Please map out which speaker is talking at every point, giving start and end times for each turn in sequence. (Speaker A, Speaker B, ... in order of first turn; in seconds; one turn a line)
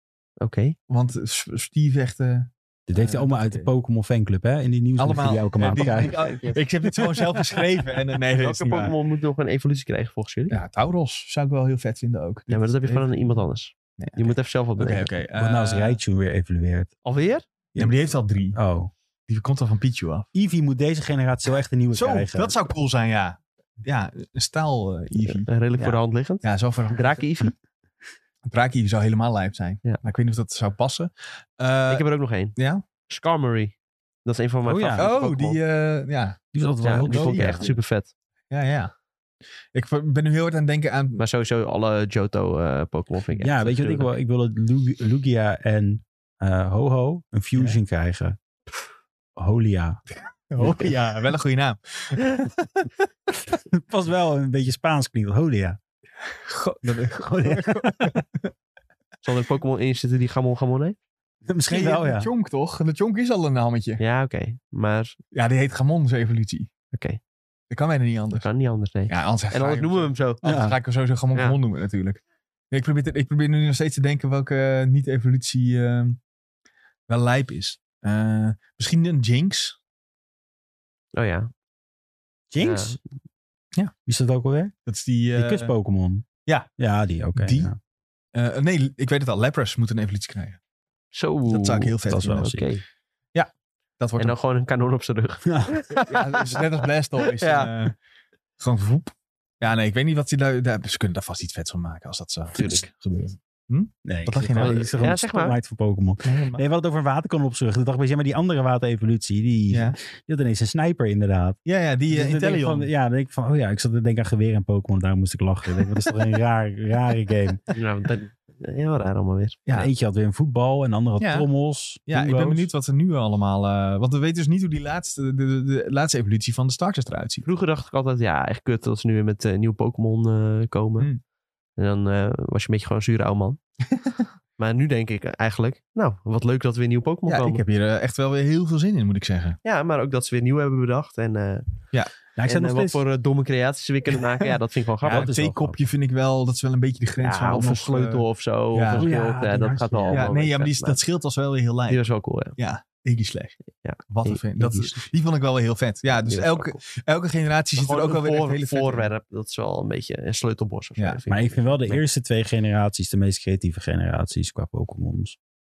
Speaker A: 0.4-0.8
Speaker B: 0.9-3.7
Speaker C: 2.9-6.4
Speaker B: 5.0-8.9
Speaker A: 5.8-6.6
Speaker C: 7.0-7.4
Speaker A: 8.4-10.6
Speaker B: 10.5-13.4
Speaker A: 12.5-15.1
Speaker B: 14.0-16.0
Speaker C: 15.3-16.9
Speaker A: 17.0-17.4
Speaker B: 17.8-18.6
Speaker C: 18.5-18.9
Speaker B: 19.3-20.3
Speaker C: 20.3-22.6
Speaker B: 21.9-25.5
Speaker A: 25.2-27.5
Speaker B: 26.4-27.2
Speaker B: 28.5-32.0
Speaker A: 31.9-32.5
Speaker B: 32.5-32.8
Speaker A: 33.1-35.6
Speaker C: 34.6-35.0
Speaker B: 35.0-36.4
Speaker C: 36.5-37.7
Speaker A: 36.8-38.1
Speaker B: 37.0-37.8
Speaker B: 38.5-38.9
Speaker B: 39.7-41.2
Speaker A: 41.2-44.1
Speaker C: 43.4-48.4
Speaker C: 49.4-50.0
Speaker B: 50.5-52.9
Speaker C: 50.6-50.9
Speaker C: 53.5-55.8
Speaker B: 56.3-58.5
Speaker C: 57.0-58.2
Speaker A: 59.2-61.0
Speaker C: 61.5-62.3
Speaker B: 61.7-64.0
Speaker A: 64.0-65.2
Speaker B: 65.3-66.7
Speaker A: 66.9-67.2
Speaker B: 67.7-68.5
Speaker A: 68.4-70.4
Speaker B: 69.1-76.2
Speaker C: 70.4-70.8
Speaker B: 77.1-79.8
Speaker A: 81.1-81.5
Speaker C: 82.5-83.0
Speaker A: 82.6-83.0
Speaker C: 84.0-84.7
Speaker B: 84.9-85.7
Speaker C: 85.3-86.2
Speaker C: 86.8-87.8
Speaker B: 87.3-87.7
Speaker B: 88.3-90.6
Speaker A: 91.1-92.8
Speaker B: 91.5-92.5
Speaker C: 92.1-92.7
Speaker B: 93.3-94.3
Speaker A: 94.2-96.6
Speaker B: 96.0-97.9
Speaker A: 97.2-97.7
Speaker B: 98.6-105.0
Speaker A: 102.5-103.0
Speaker C: 104.0-117.6
Speaker A: 104.6-105.5
Speaker B: 106.2-106.6
Speaker B: 109.7-110.0
Speaker B: 111.6-112.9
Speaker A: 117.7-119.6
Speaker C: 119.7-122.7
Speaker B: 121.2-121.5
Speaker B: 122.1-127.5
Speaker A: 127.4-131.1
Speaker A: 131.8-133.6
Speaker A: 134.6-137.6
Speaker B: 137.3-139.6
Speaker A: 139.6-141.8
Speaker C: 142.4-143.0
Speaker A: 142.4-145.3
Speaker C: 145.0-145.8
Speaker B: 145.1-149.1
Speaker C: 147.2-147.8
Speaker A: 147.3-151.0
Speaker C: 148.9-150.3
Speaker B: 150.1-159.1
Speaker A: 151.9-152.6
Speaker A: 153.8-155.0
Speaker A: 156.1-156.8
Speaker A: 157.8-162.0
Speaker C: 161.3-165.4